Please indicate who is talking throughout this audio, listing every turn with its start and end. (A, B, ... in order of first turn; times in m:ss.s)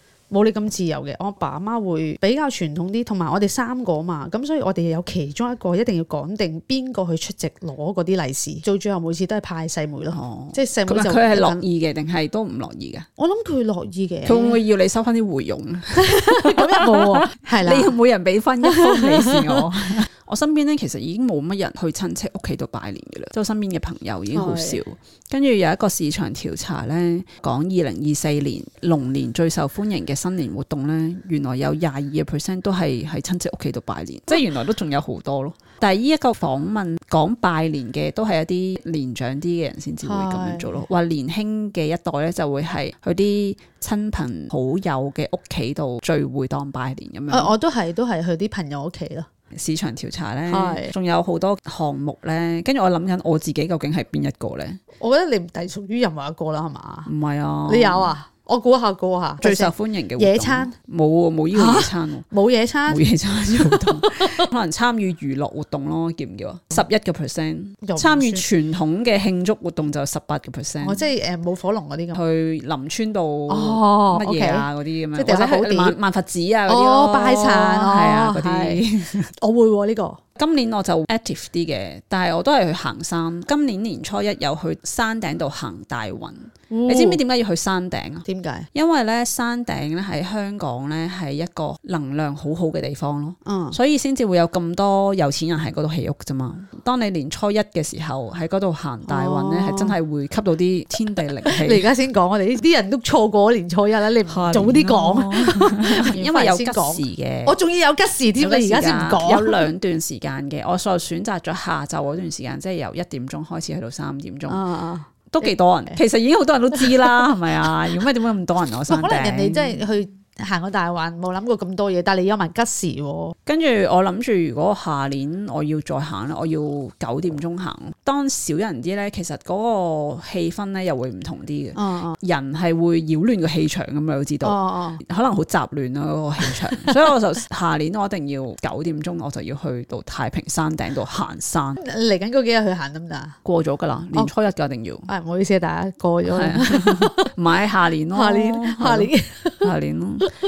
0:00.3-0:11.6 A
0:10.1-0:13.1 B
0:13.2-0:14.6 A
0:14.2-0:47.5 B
0:16.0-0:18.0 A
0:18.6-0:19.7 A
0:24.3-0:24.8 A
0:40.0-0:40.9 A
0:47.3-0:49.3 A
0:49.5-0:54.8 B
0:50.5-0:50.9 A
0:55.0-0:57.1 A
0:57.0-0:58.1 B
0:57.6-1:00.7 A
0:59.4-1:02.2 B
1:01.5-1:04.4 A
1:02.9-1:11.0 B
1:07.8-1:08.4 A
1:10.8-1:12.2 A
1:12.1-1:19.3 B
1:13.5-1:16.0 A
1:16.7-1:18.8 A
1:19.4-1:20.2 A
1:20.4-1:41.9 B
1:26.7-1:27.2 A
1:28.2-1:28.7 A
1:33.4-1:33.8 A
1:39.1-1:40.0 A
1:41.4-1:49.7 A
1:44.3-1:47.6 B
1:48.4-1:54.6 B
1:54.5-1:55.5 A
1:55.3-1:59.8 B
1:58.9-2:03.3 A
2:03.4-2:21.8 B
2:11.7-2:12.2 A
2:14.4-2:15.0 A
2:21.8-2:23.4 A
2:23.4-2:25.1 B
2:25.1-2:27.3 A
2:26.2-2:29.1 B
2:28.1-2:29.7 A
2:29.6-2:30.3 B